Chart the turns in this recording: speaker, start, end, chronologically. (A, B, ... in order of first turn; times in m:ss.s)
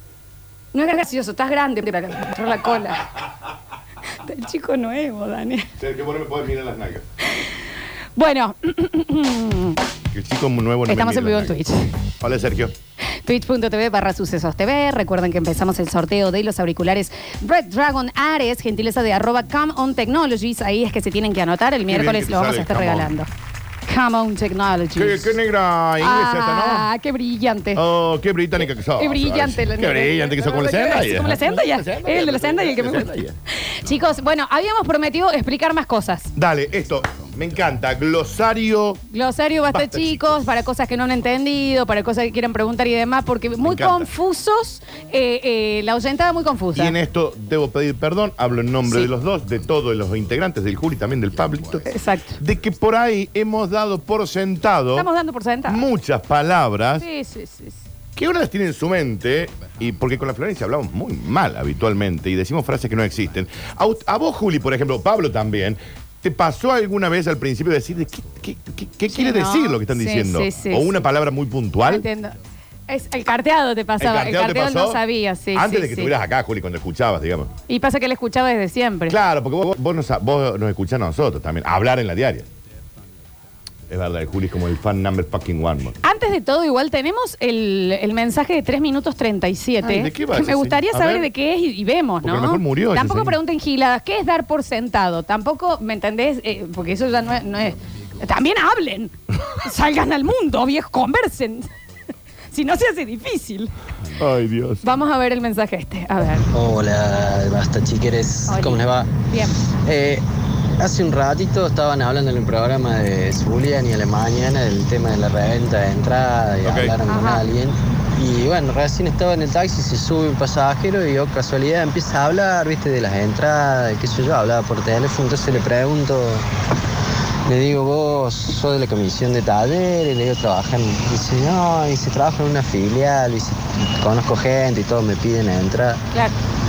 0:00.7-0:03.1 A
0:04.2-0:05.7 A
0:05.8-0:07.0 B
0:08.2-0:09.8 A
0:10.1-0:11.6 B
0:10.9-0:11.9 A
0:12.2-0:12.7 B
0:13.2-0:23.3 A
0:21.9-0:23.1 B
0:23.9-0:25.3 A
0:25.0-0:26.9 B
0:26.0-0:27.8 A
0:27.8-0:33.4 B
0:28.6-0:36.3 A
0:36.3-0:39.0 B
0:39.1-0:47.0 A
0:39.7-0:40.3 B
0:43.6-0:44.1 B
0:46.8-0:55.1 B
0:51.8-0:52.4 A
0:54.9-0:55.8 A
0:55.7-0:57.0 B
0:57.0-0:57.8 A
0:58.2-1:12.0 B
1:09.1-1:11.0 A
1:11.8-1:12.4 A
1:12.9-1:16.1 A
1:14.0-1:15.0 B
1:15.5-1:17.5 B
1:17.7-1:19.2 A
1:19.1-1:22.5 B
1:23.9-1:26.0 B
1:26.0-1:41.7 A
1:29.8-1:31.3 B
1:32.2-1:33.4 B
1:42.5-1:43.7 A
1:44.2-1:44.8 B
1:44.8-1:46.5 A
1:46.5-1:49.1 C
1:48.5-1:49.6 A
1:49.8-1:50.2 C
1:50.8-2:06.5 C
1:56.6-1:56.9 B
1:57.1-1:57.4 A
2:07.5-2:16.0 C